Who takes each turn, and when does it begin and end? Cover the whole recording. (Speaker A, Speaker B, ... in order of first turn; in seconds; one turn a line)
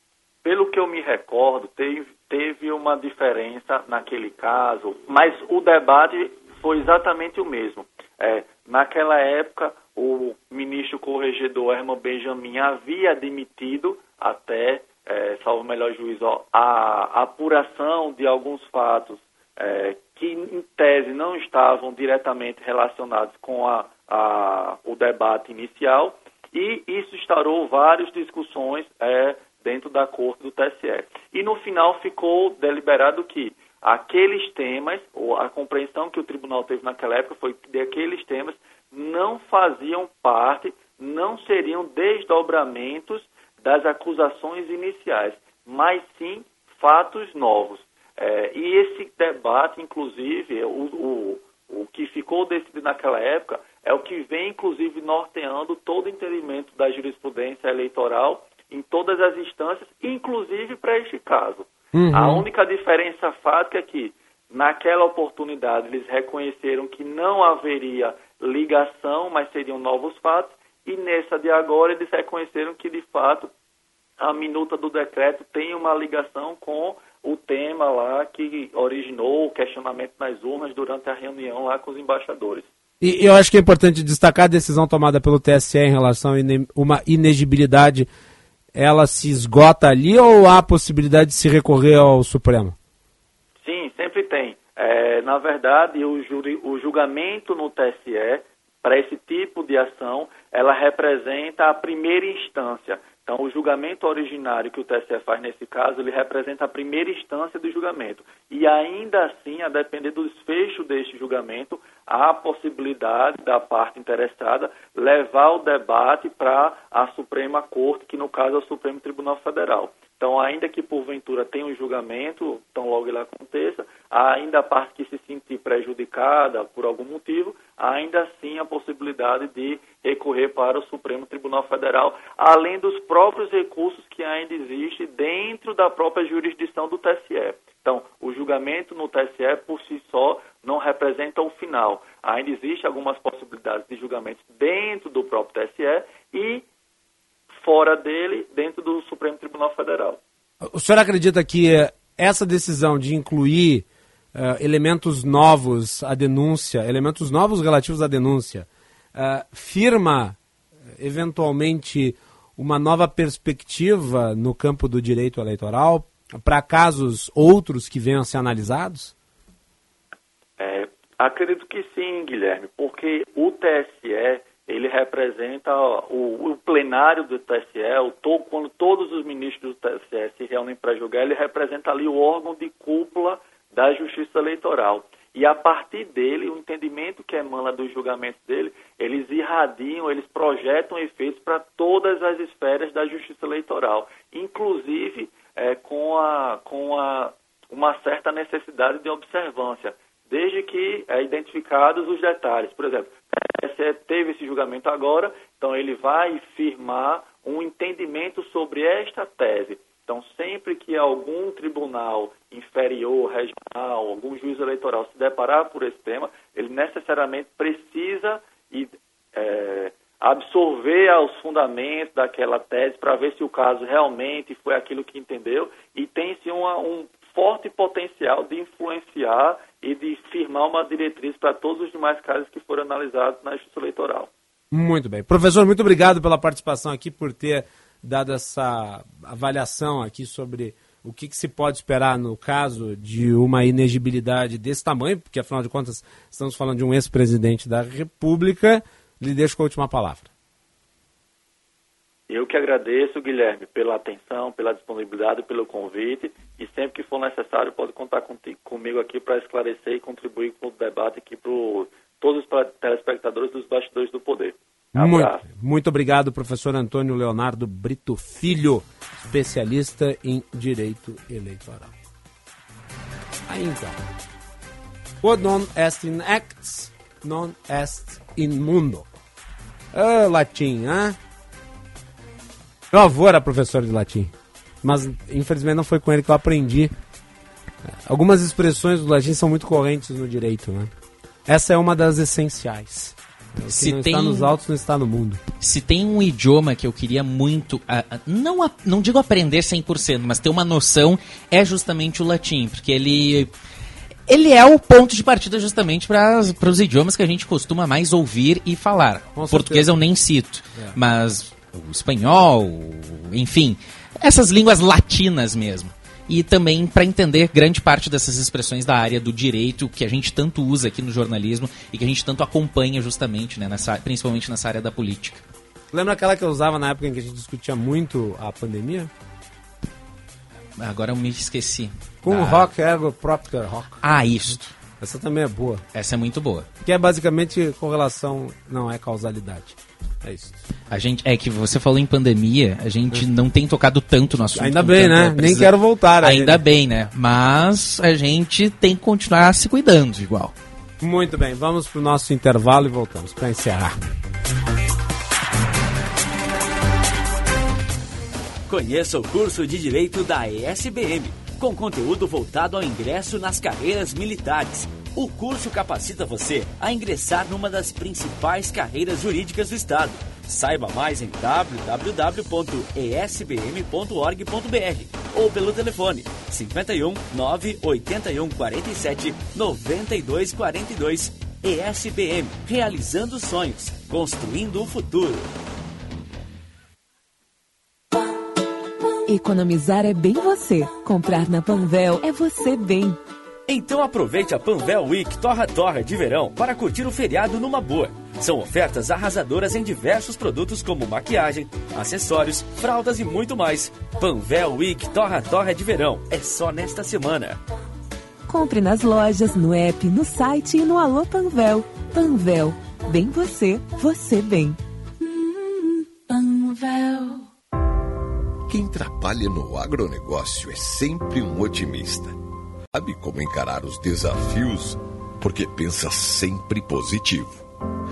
Speaker A: 0.4-73.5
Speaker B: 61.9-62.5
Speaker A: 74.2-82.7
Speaker B: 83.0-88.1
Speaker B: 88.7-92.7
Speaker A: 93.6-146.6
Speaker A: 147.6-150.2
Speaker B: 150.7-160.3
Speaker B: 161.0-169.1
Speaker A: 170.6-234.3
Speaker B: 234.7-250.3
Speaker A: 252.3-265.4
Speaker B: 264.9-271.9
Speaker B: 273.5-274.0
Speaker B: 275.2-279.1
Speaker B: 279.9-281.2
Speaker B: 282.9-286.9
Speaker B: 288.1-290.9
Speaker B: 291.5-295.4
Speaker C: 293.7-294.5
Speaker C: 295.6-303.5
Speaker C: 304.3-325.4
Speaker B: 309.3-310.0
Speaker B: 325.9-329.1
Speaker C: 330.8-332.7
Speaker B: 332.2-334.0
Speaker C: 334.0-334.7
Speaker B: 335.0-335.8
Speaker C: 335.9-336.7
Speaker B: 336.8-340.6
Speaker C: 340.9-350.5
Speaker B: 344.5-346.6
Speaker B: 351.0-354.0
Speaker D: 358.7-385.5
Speaker E: 389.3-393.2
Speaker D: 393.7-407.6
Speaker E: 408.5-417.4
Speaker F: 418.7-422.3
Speaker F: 422.9-427.6